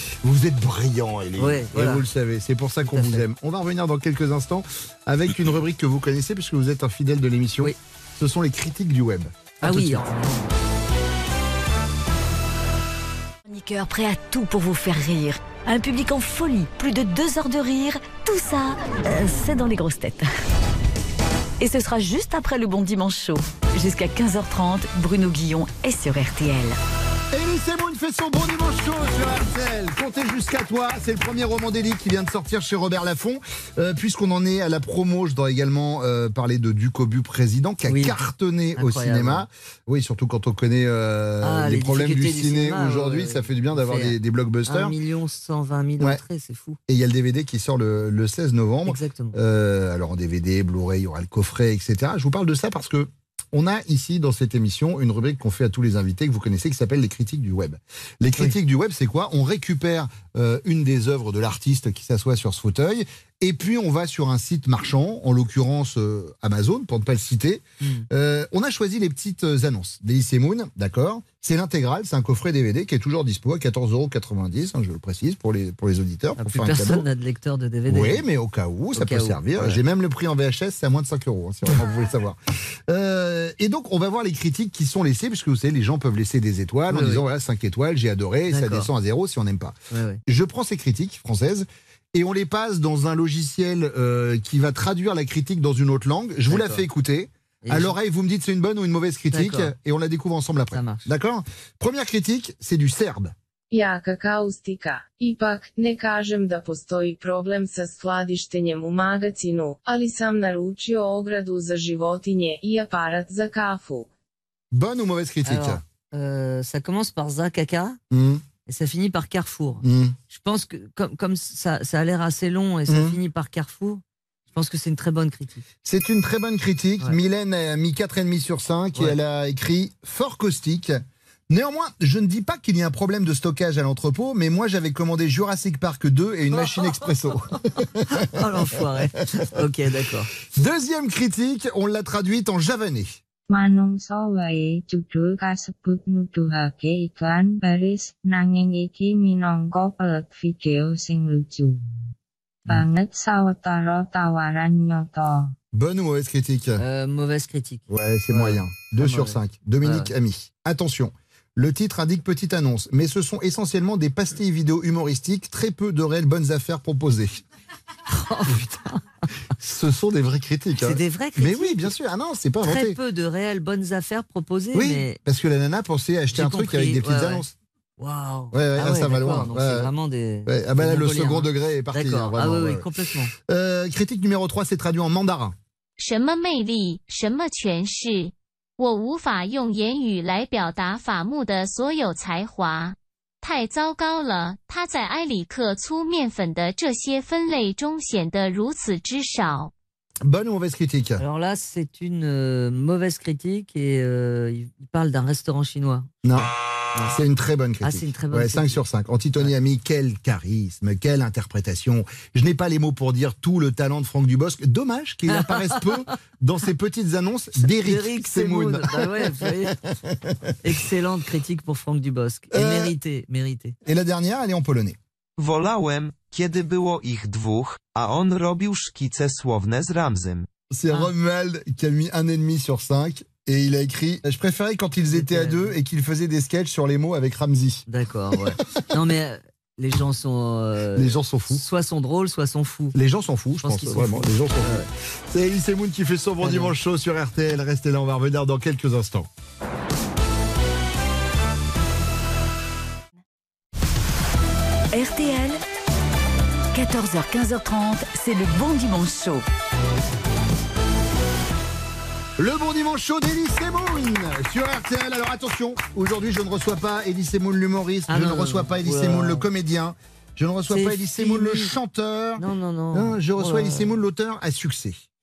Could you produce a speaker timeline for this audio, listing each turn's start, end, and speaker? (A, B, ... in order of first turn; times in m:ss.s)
0:00.2-0:10.1 A
0:01.4-0:02.0 B
0:02.8-0:03.2 B
0:09.6-0:10.5 B
0:13.5-0:20.3 C
0:21.6-0:26.8 C
0:27.3-0:45.0 A
0:37.9-0:38.2 B
0:38.8-0:39.4 B
0:41.4-0:44.2 B
0:44.7-0:46.8 B
0:46.9-1:17.0 A
0:48.8-0:49.4 B
1:07.8-1:08.1 B
1:16.4-1:18.2 B
1:17.9-1:29.8 A
1:18.9-1:19.8 B
1:26.9-1:27.2 B
1:28.5-1:28.9 B
1:29.9-1:30.2 B
1:30.3-1:43.3 A
1:36.5-1:36.8 B
1:37.6-1:38.0 B
1:39.3-1:39.7 B
1:40.7-1:41.1 B
1:43.7-1:54.0 D
1:54.7-1:55.8 A
1:55.4-1:58.0 B
1:58.1-1:58.4 A
1:58.7-2:05.6 B
1:59.8-2:00.2 A
2:02.9-2:03.2 A
2:05.8-2:18.0 A
2:16.5-2:17.1 B
2:18.0-2:20.3 B
2:20.5-2:23.2 A
2:23.5-2:31.8 E
2:32.7-2:35.5 E
2:35.7-2:36.8 A
2:36.8-2:40.1 B
2:37.9-2:47.4 A
2:48.1-2:49.0 B
2:49.6-2:53.0 A
2:50.8-2:51.9 B
2:52.6-2:55.2 B
2:54.7-2:57.6 A
2:56.3-2:57.4 B
2:58.0-3:03.3 B
2:58.5-2:59.9 A
3:00.5-3:05.6 A
3:06.0-3:19.7 F
3:20.2-3:21.2 A
3:21.2-3:27.2 B
3:26.2-3:26.5 A
3:27.0-3:40.5 A
3:27.8-3:28.8 B
3:35.3-3:36.0 B
3:37.6-3:39.8 B
3:40.6-3:43.8 B
3:42.5-3:42.9 A
3:43.8-3:45.0 A
3:45.4-3:50.5 G
3:50.7-3:57.8 A
3:55.1-3:55.8 B
3:57.9-4:03.0 B
4:01.0-4:01.6 A
4:02.9-4:09.3 A
4:03.6-4:04.9 B
4:06.4-4:06.7 B
4:14.9-4:15.6 C
4:16.7-4:19.4 C
4:22.4-4:35.0 A
4:28.1-4:29.5 B
4:30.7-4:31.7 B
4:32.4-4:34.0 B